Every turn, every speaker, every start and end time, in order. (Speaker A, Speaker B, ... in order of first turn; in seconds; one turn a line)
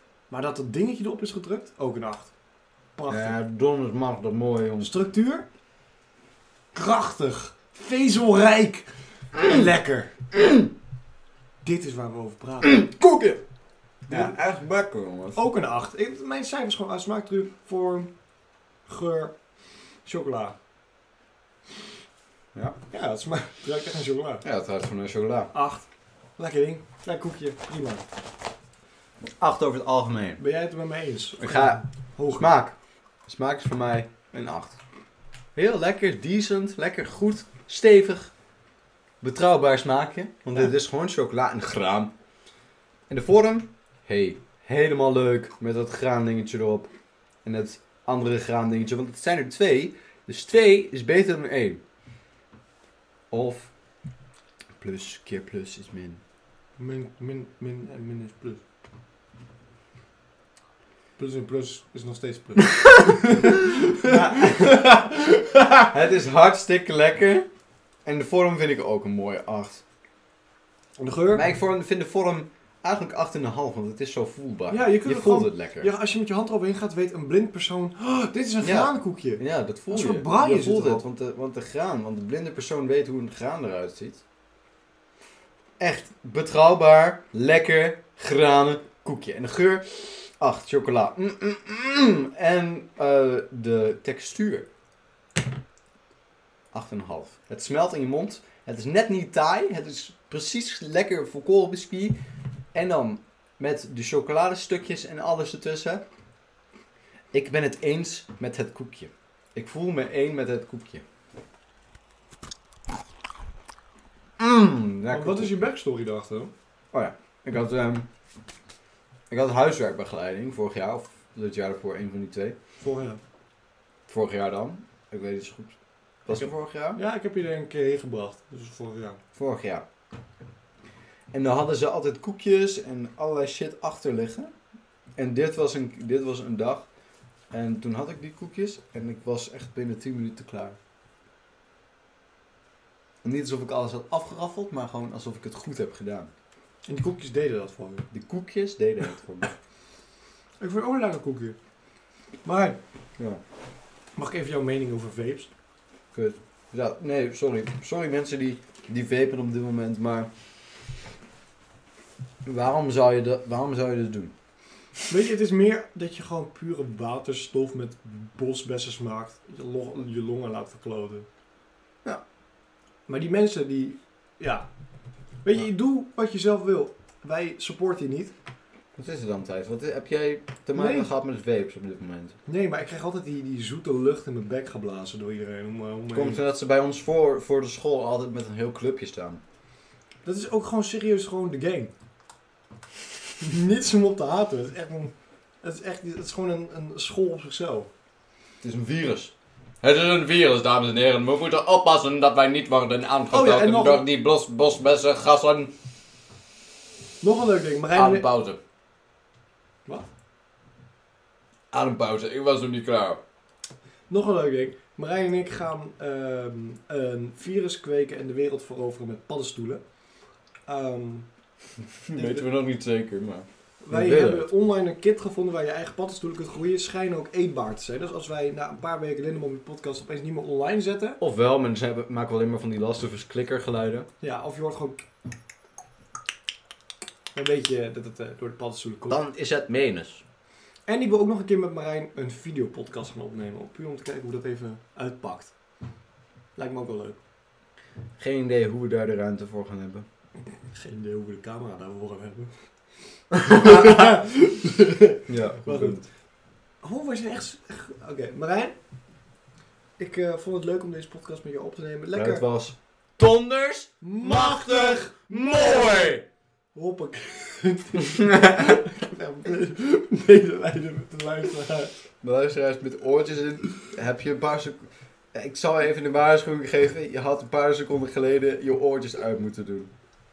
Speaker A: 0.3-2.3
Speaker A: 3.0-3.4
Speaker B: 3.1-4.9
Speaker A: 4.8-5.5
Speaker A: 6.7-10.5
Speaker A: 11.6-12.9
Speaker B: 12.6-13.4
Speaker B: 14.1-15.4
Speaker A: 14.1-14.4
Speaker A: 15.3-18.1
Speaker A: 18.9-19.4
Speaker A: 20.0-20.6
Speaker A: 22.9-24.4
Speaker B: 24.4-25.5
Speaker A: 25.5-25.9
Speaker A: 26.4-28.0
Speaker B: 29.4-30.4
Speaker A: 30.4-32.5
Speaker B: 31.4-31.8
Speaker B: 32.3-32.8
Speaker B: 33.3-34.8
Speaker B: 35.5-38.3
Speaker B: 39.2-42.1
Speaker B: 43.1-46.9
Speaker B: 47.4-51.8
Speaker B: 53.3-53.7
Speaker B: 54.8-56.2
Speaker A: 56.8-58.6
Speaker A: 61.2-65.9
Speaker B: 63.3-65.0
Speaker B: 65.9-67.5
Speaker B: 68.0-69.8
Speaker A: 71.0-71.5
Speaker B: 71.3-75.9
Speaker A: 74.7-81.0
Speaker B: 78.6-84.2
Speaker B: 85.8-94.7
Speaker B: 96.7-102.2
Speaker B: 102.7-106.0
Speaker B: 107.3-111.0
Speaker B: 114.4-115.6
Speaker A: 115.1-116.5
Speaker B: 116.9-118.1
Speaker B: 119.3-122.6
Speaker A: 122.8-123.2
Speaker B: 124.1-127.0
Speaker A: 126.9-129.2
Speaker B: 129.3-129.8
Speaker B: 131.3-134.5
Speaker B: 135.2-136.9
Speaker B: 137.5-140.8
Speaker B: 143.2-146.3
Speaker A: 146.9-148.1
Speaker B: 148.1-149.5
Speaker A: 150.6-151.6
Speaker A: 152.4-152.8
Speaker A: 154.2-155.5
Speaker B: 156.1-160.3
Speaker B: 162.4-164.3
Speaker A: 165.1-171.3
Speaker A: 173.1-174.7
Speaker A: 175.4-178.3
Speaker B: 178.9-182.4
Speaker A: 180.8-181.1
Speaker A: 182.5-186.4
Speaker B: 186.1-189.4
Speaker A: 190.2-191.9
Speaker A: 193.4-197.9
Speaker B: 198.6-205.7
Speaker A: 203.3-204.0
Speaker A: 207.2-208.3
Speaker B: 207.9-208.6
Speaker B: 211.7-213.2
Speaker A: 214.1-219.8
Speaker A: 220.7-221.3
Speaker B: 222.1-224.5
Speaker A: 222.1-222.5
Speaker A: 223.8-231.2
Speaker B: 231.2-234.1
Speaker A: 234.2-235.0
Speaker A: 237.3-239.2
Speaker B: 239.1-240.2
Speaker A: 240.9-245.5
Speaker A: 246.6-247.2
Speaker B: 248.2-250.1
Speaker A: 250.7-252.6
Speaker A: 253.3-256.0
Speaker B: 253.3-254.1
Speaker B: 255.3-256.1
Speaker A: 256.8-258.8
Speaker A: 260.0-262.4
Speaker B: 262.1-266.2
Speaker A: 264.0-266.1
Speaker A: 266.7-271.9
Speaker B: 268.0-268.8
Speaker B: 272.2-279.9